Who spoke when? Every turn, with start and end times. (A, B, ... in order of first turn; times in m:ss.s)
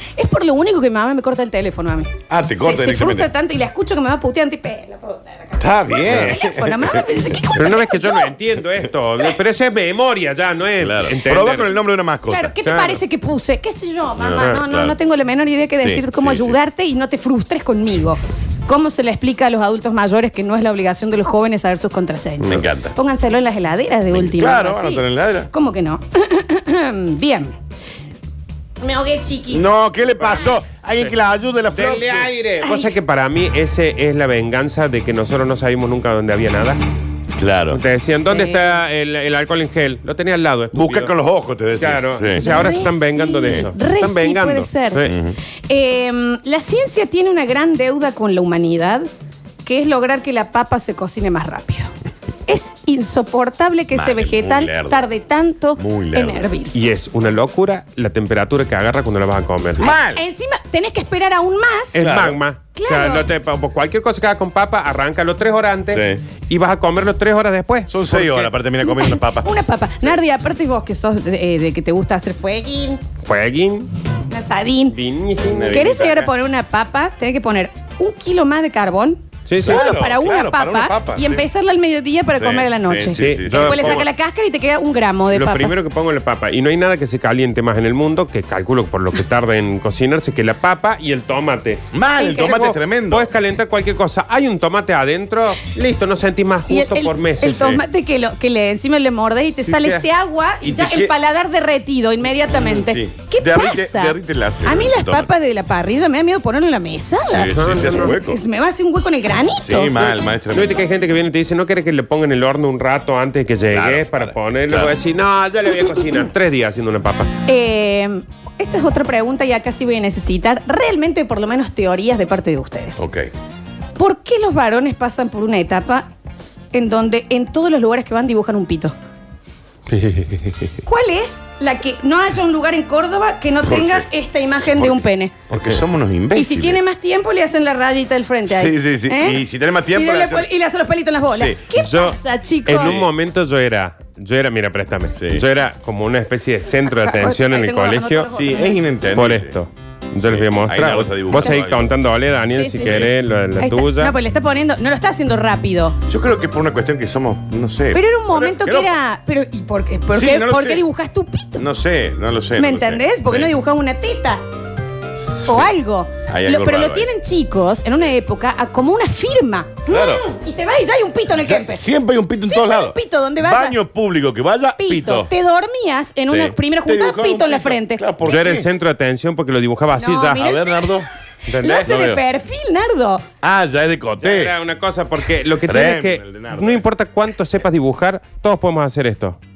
0:00.2-0:08.3 A
0:02.3-0:03.3 B
0:05.6-0:07.0 B
0:07.6-0:11.8 C
0:10.8-0:12.6 B
0:12.3-0:27.6 A
0:12.6-0:13.0 C
0:14.2-0:15.0 B
0:15.8-0:16.6 B
0:22.4-0:22.9 B
0:24.1-0:25.5 B
0:28.8-0:29.7 A
0:29.5-0:32.3 B
0:31.7-0:36.8 C
0:32.6-0:32.9 A
0:37.4-0:37.8 B
0:37.7-0:41.1 C
0:38.3-0:38.6 A
0:40.7-0:42.7 B
0:41.8-0:45.2 C
0:42.4-0:45.1 A
0:45.1-0:45.4 B
0:45.7-0:49.1 A
0:49.6-0:51.9 A
0:52.5-0:56.8 A
0:53.9-0:55.1 B
0:55.8-0:56.5 B
0:56.7-0:59.9 C
0:59.8-1:00.2 B
0:59.8-1:02.0 A
1:01.9-1:08.5 C
1:02.0-1:02.4 B
1:02.8-1:03.2 A
1:05.9-1:06.2 B
1:07.9-1:09.5 B
1:08.8-1:13.0 A
1:13.2-1:13.9 C
1:14.3-1:15.0 A
1:14.9-1:16.1 C
1:15.4-1:16.3 B
1:15.7-1:25.7 A
1:19.5-1:19.9 C
1:19.6-1:21.5 B
1:22.4-1:24.0 B
1:23.2-1:24.1 C
1:25.3-1:37.6 C
1:31.9-1:33.3 B
1:32.2-1:32.5 A
1:36.7-1:50.0 A
1:37.4-1:37.8 B
1:39.6-1:40.0 C
1:40.6-1:41.1 B
1:42.6-1:45.3 B
1:47.3-1:48.4 B
1:47.5-1:48.2 C
1:49.6-1:50.8 B
1:50.5-1:57.3 C
1:53.7-1:54.9 B
1:57.5-2:03.0 A
2:03.0-2:03.3 B
2:04.0-2:06.1 A
2:06.7-2:09.0 A
2:09.9-2:10.7 C
2:10.8-2:15.4 A
2:13.6-2:14.0 B
2:14.6-2:16.8 B
2:16.4-2:19.4 A
2:18.5-2:20.5 B
2:19.9-2:22.9 A
2:21.3-2:21.6 B
2:21.8-2:28.3 C
2:22.7-2:23.1 B
2:25.2-2:25.4 B
2:26.9-2:28.8 A
2:28.3-2:29.5 B
2:29.1-2:34.2 C
2:30.2-2:31.9 B
2:32.5-2:36.0 A
2:32.8-2:33.1 B
2:36.1-2:38.9 B
2:37.9-2:41.6 A
2:40.1-2:40.9 B
2:41.6-2:43.5 B
2:42.6-2:44.4 A
2:45.2-2:45.7 B
2:45.4-2:51.8 A
2:46.3-2:47.1 B
2:49.9-2:50.2 B
2:51.4-2:55.3 B
2:52.4-2:53.8 A
2:54.8-2:58.0 A
2:56.3-2:58.7 B
2:58.2-3:00.5 C
3:00.0-3:00.9 A
3:00.4-3:01.1 B
3:01.5-3:01.9 C
3:01.6-3:03.2 A
3:01.7-3:02.2 B
3:03.4-3:04.5 B
3:04.2-3:09.4 C
3:05.7-3:06.8 B